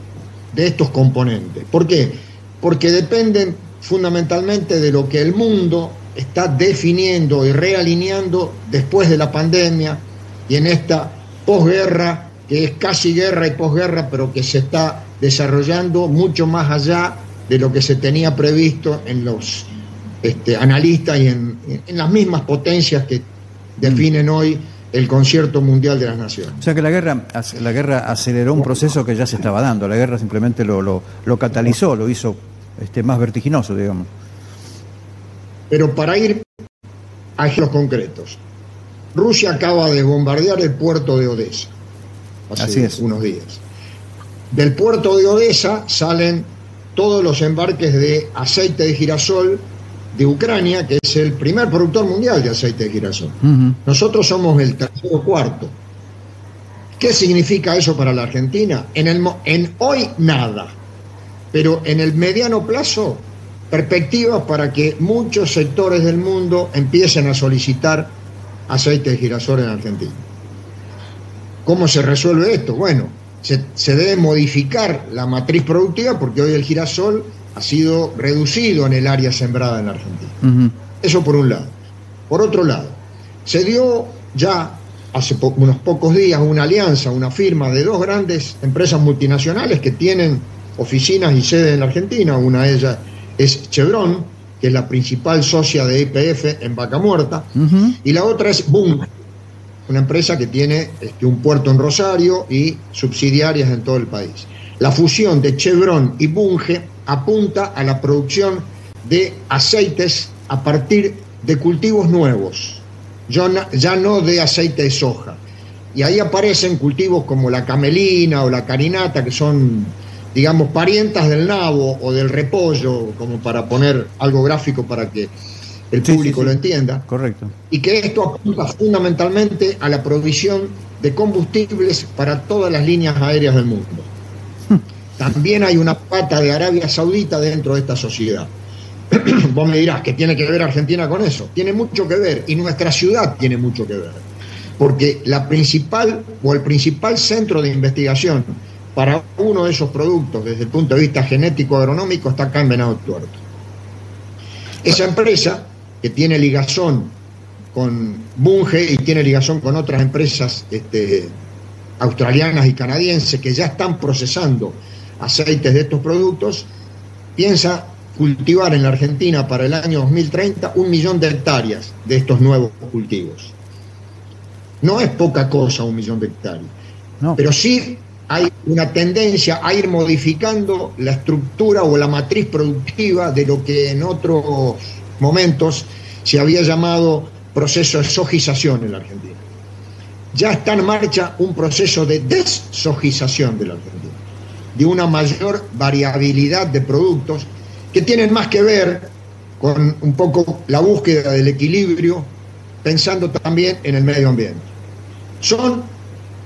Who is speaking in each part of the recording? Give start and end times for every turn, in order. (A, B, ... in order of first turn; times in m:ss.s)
0:00.5-0:19.7 A
0:20.2-0:26.7 A
0:26.6-0:34.1 B
0:35.7-0:36.4 A
0:37.4-0:38.4 A
0:39.1-0:41.7 A
0:42.5-0:43.6 A
0:42.6-0:43.0 B
0:44.5-0:55.8 A
0:57.0-1:00.8 A
1:01.5-1:08.2 A
1:08.7-1:10.2 A
1:11.6-1:20.4 A
1:20.4-1:20.7 B
1:21.0-1:21.8 A
1:22.3-1:39.1 A
1:37.6-1:37.9 B
1:39.9-2:05.3 A
2:05.9-2:07.1 A
2:06.0-2:07.5 B
2:07.7-2:14.1 A
2:15.2-2:18.5 A
2:19.1-2:24.2 A
2:24.8-2:33.4 A
2:34.8-2:37.2 A
2:37.7-2:41.3 A
2:42.0-2:46.7 A
2:47.4-2:53.6 A
2:54.8-2:56.7 A
2:57.4-3:09.4 A
3:10.3-3:14.2 A
3:14.7-3:24.7 A
3:25.4-3:26.0 A